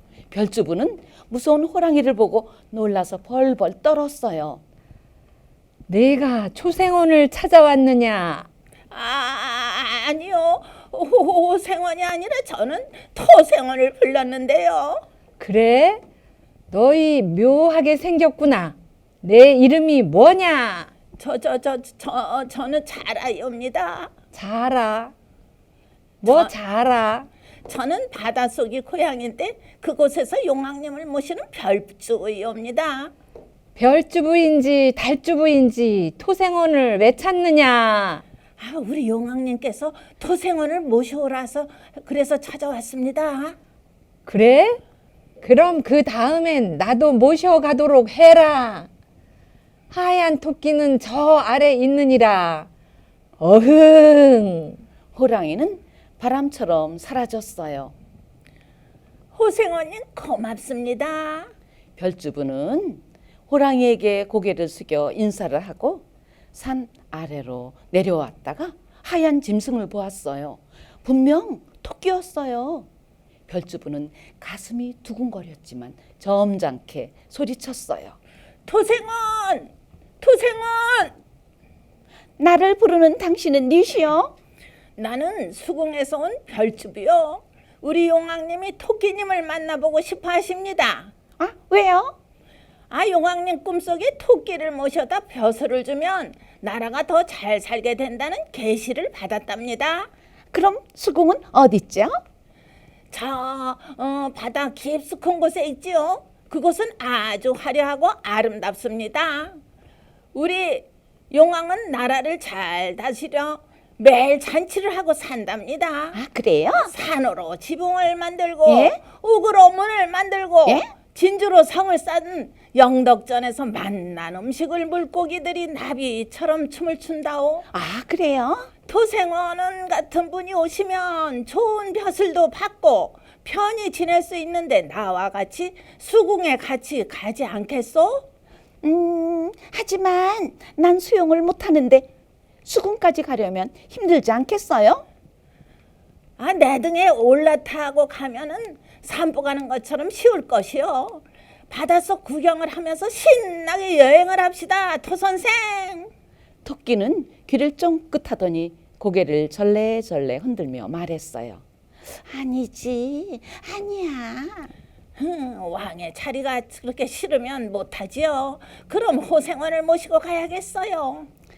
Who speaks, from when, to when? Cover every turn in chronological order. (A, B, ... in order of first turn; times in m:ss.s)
0:00.3-0:04.6 A
0:05.9-0:08.5 B
0:08.9-0:15.0 C
0:15.4-0:16.0 B
0:16.7-0:20.9 B
0:21.2-0:24.1 C
0:24.3-0:25.1 B
0:26.2-0:27.3 B
0:26.2-0:26.5 C
0:27.6-0:33.1 C
0:33.8-0:38.2 B
0:38.6-0:43.6 C
0:44.2-0:44.8 B
0:45.4-0:48.9 B
0:49.9-0:52.7 B
0:53.4-0:54.8 B
0:55.1-0:57.9 A
0:59.3-1:01.5 C
1:02.0-1:12.9 A
1:13.5-1:18.2 A
1:18.6-1:21.1 C
1:22.4-1:24.3 A
1:25.0-1:31.1 C
1:31.4-1:32.2 A
1:32.9-1:40.1 C
1:40.5-1:42.2 A
1:43.1-1:49.6 C
1:50.3-1:56.2 C
1:56.1-1:56.9 A
1:56.8-2:07.7 C
1:58.6-1:59.0 A
2:00.6-2:00.9 A
2:07.7-2:08.7 A
2:08.9-2:18.2 C
2:18.8-2:22.1 A
2:22.6-2:25.0 A
2:26.4-2:36.1 C
2:36.6-2:44.7 A
2:45.2-2:51.3 C